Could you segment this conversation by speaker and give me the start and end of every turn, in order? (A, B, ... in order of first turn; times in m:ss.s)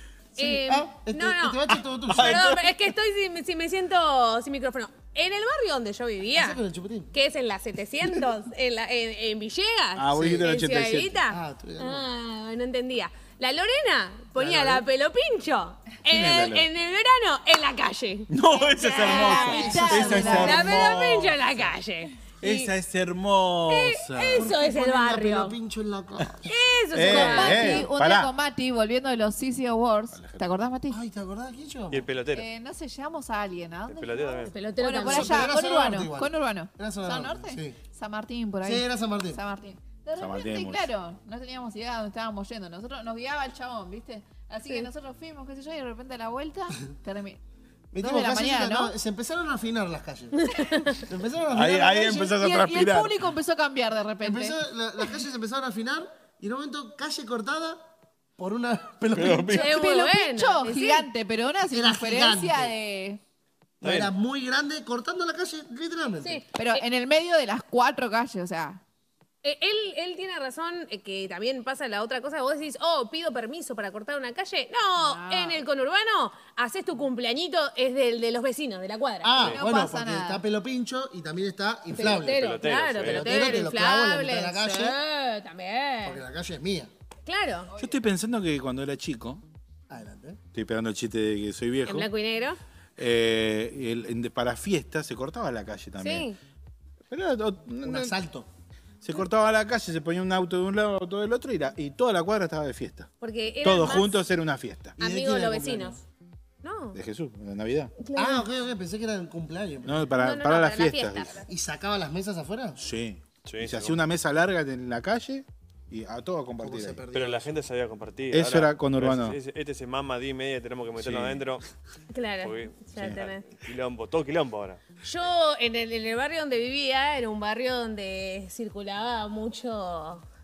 0:00.4-0:02.6 A
0:00.4-0:06.6 B
0:02.1-0:02.6 C
0:06.3-0:07.1 A
0:07.1-0:22.7 B
0:10.0-0:11.2 C
0:10.1-0:10.5 A
0:11.3-0:12.1 A
0:14.4-0:14.9 A
0:16.1-0:16.7 C
0:18.3-0:21.4 C
0:19.0-0:21.0 A
0:19.4-0:20.6 D
0:22.4-0:24.5 C
0:23.7-0:25.6 B
0:24.3-0:26.5 A
0:26.5-0:27.9 B
0:26.9-0:28.3 C
0:27.0-0:31.0 D
0:30.1-0:30.5 C
0:30.9-0:32.1 A
0:31.9-0:32.5 E
0:32.3-0:47.4 D
0:33.9-0:34.6 E
0:34.5-0:35.6 B
0:35.0-0:37.8 A
0:38.6-0:39.4 A
0:40.2-0:40.9 C
0:47.9-0:52.4 A
0:48.0-0:49.0 D
0:50.4-0:51.0 B
0:51.5-0:53.2 C
0:52.2-0:54.6 D
0:54.2-0:57.9 A
0:58.4-0:59.7 A
0:59.1-0:59.7 C
0:59.5-1:01.1 B
0:59.5-1:03.2 D
1:01.7-1:02.7 A
1:03.8-1:04.1 E
1:03.8-1:06.5 A
1:06.2-1:06.8 B
1:06.6-1:08.8 D
1:09.4-1:19.6 B
1:15.0-1:15.6 D
1:19.2-1:25.0 A
1:19.4-1:20.4 D
1:21.9-1:26.2 B
1:22.0-1:23.6 E
1:26.0-1:26.9 A
1:27.3-1:27.7 B
1:27.7-1:28.0 D
1:27.8-1:29.4 C
1:29.9-1:30.4 A
1:30.5-1:32.1 C
1:31.8-1:32.6 B
1:33.0-1:36.3 C
1:36.0-1:36.4 B
1:37.1-1:38.2 C
1:37.8-1:38.5 A
1:39.0-1:43.1 C
1:43.2-1:44.2 B
1:43.6-1:45.0 C
1:45.0-1:46.0 B
1:45.0-1:46.0 A
1:46.6-1:47.0 B
1:46.9-1:47.9 C
1:48.0-1:48.5 B
1:48.2-1:50.0 A
1:49.8-1:51.4 C
1:50.2-1:51.4 B
1:51.5-1:52.8 A
1:52.8-1:57.0 C
1:53.4-1:54.0 E
1:56.6-1:57.6 A
1:57.1-2:01.6 E
1:58.3-1:59.4 C
2:01.0-2:01.4 C
2:02.1-2:03.5 B
2:02.4-2:04.8 E
2:03.0-2:03.2 C
2:05.0-2:10.2 B